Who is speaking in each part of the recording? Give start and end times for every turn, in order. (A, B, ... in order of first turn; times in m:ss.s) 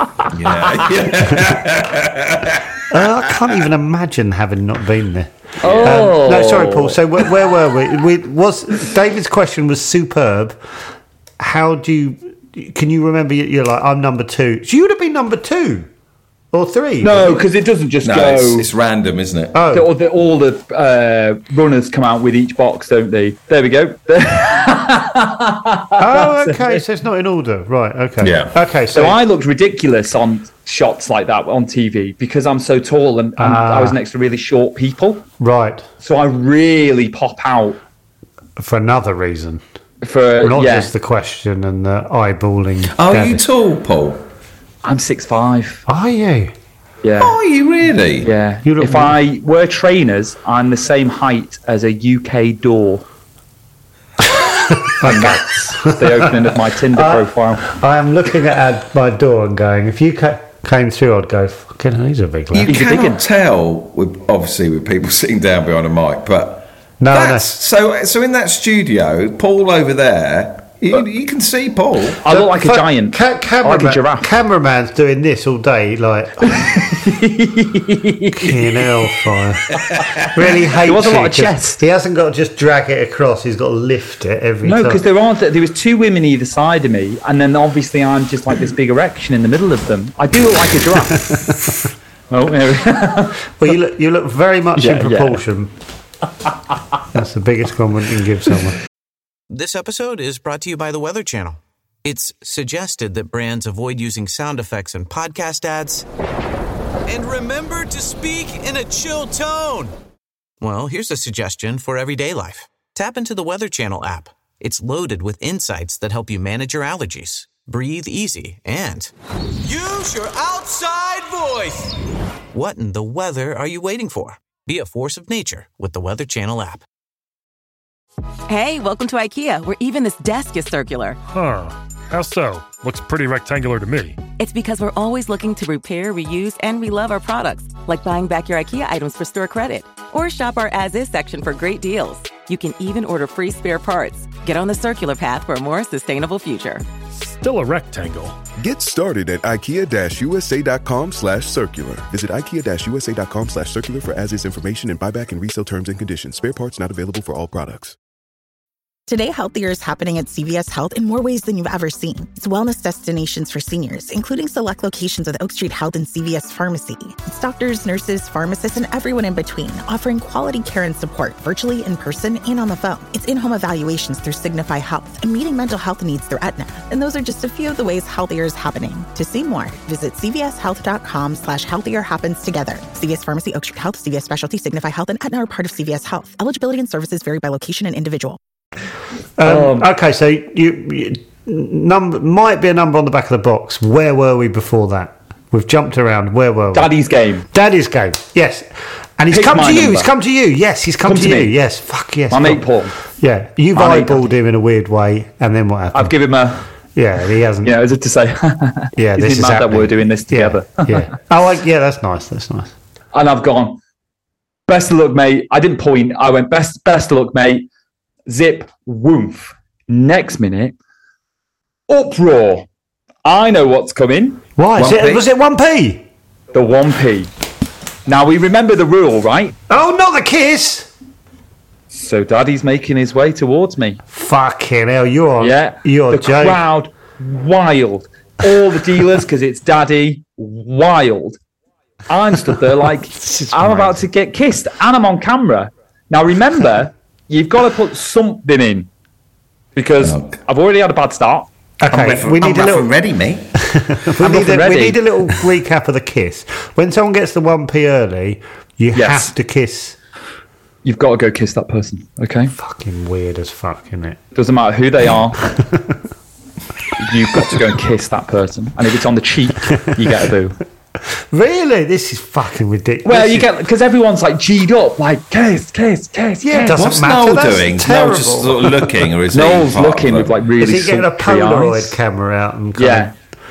0:00.3-0:02.6 A
0:01.3-0:01.6 B
0:02.9-0:10.6 B
0:05.6-0:07.0 C
0:05.6-0:06.0 A
0:11.4-0:15.9 B
0:16.5-0:17.4 B
0:17.0-0:18.7 C
0:18.0-0:19.6 A
0:19.5-0:19.9 B
0:19.7-0:26.8 C
0:26.0-0:29.2 B
0:28.2-0:28.5 A
0:28.9-0:35.2 C
0:33.4-0:34.0 B
0:35.4-0:35.8 B
0:36.0-0:37.8 C
0:38.6-0:39.6 B
0:40.0-0:40.9 C
0:40.4-0:43.4 B
0:42.9-0:44.2 A
0:44.8-0:45.8 C
0:45.9-0:46.5 B
0:47.0-0:47.3 C
0:47.2-0:48.3 A
0:48.2-0:53.0 C
0:48.6-0:49.2 B
0:54.3-1:02.8 B
0:55.0-0:57.6 C
1:02.5-1:12.2 A
1:02.6-1:03.2 C
1:07.0-1:07.5 B
1:12.2-1:14.3 C
1:12.2-1:16.8 B
1:16.4-1:18.8 C
1:18.3-1:19.6 B
1:20.3-1:25.0 B
1:20.8-1:21.8 C
1:24.6-1:31.3 C
1:31.2-1:31.8 B
1:32.3-1:33.4 C
1:33.6-1:35.7 B
1:34.8-1:35.4 C
1:37.1-1:38.8 B
1:39.5-1:46.0 D
1:47.1-1:49.9 D
1:50.6-2:02.0 D
2:02.5-2:06.8 D
2:08.5-2:11.2 E
2:11.3-2:14.2 F
2:14.4-2:26.8 E
2:27.2-2:28.4 F
2:28.6-2:38.0 G
2:39.1-3:08.4 H
3:09.4-3:16.9 B
3:09.4-3:09.9 C
3:16.7-3:17.4 C
3:17.4-3:26.2 B
3:19.3-3:20.1 C
3:21.0-3:21.5 C
3:22.3-3:23.0 C
3:23.7-3:24.3 C
3:25.9-3:26.6 C
3:26.9-3:27.8 B
3:27.6-3:31.1 C
3:29.0-3:32.7 B
3:33.1-3:33.8 C
3:34.7-3:37.7 C
3:38.3-3:40.7 C
3:41.9-3:42.6 C
3:43.2-3:45.2 C
3:44.6-3:46.0 B
3:46.5-3:47.3 C
3:48.0-3:49.5 C
3:49.7-3:50.9 B
3:51.9-3:54.0 C
3:54.1-3:56.6 B
3:55.4-4:01.4 C
4:02.1-4:08.9 C
4:03.1-4:04.1 B
4:09.8-4:11.5 C
4:10.0-4:10.3 A
4:11.8-4:12.9 B
4:11.9-4:13.5 A
4:13.6-4:20.0 B
4:14.2-4:15.0 C
4:18.9-4:19.3 C
4:20.8-4:22.5 C
4:22.6-4:24.2 B
4:24.3-4:25.4 C
4:25.4-4:26.0 B
4:27.0-4:30.6 C
4:31.1-4:33.5 B
4:33.0-4:36.8 C
4:36.4-4:39.1 B
4:36.7-4:40.4 A
4:39.3-4:42.0 C
4:40.6-4:43.1 B
4:42.8-4:43.1 C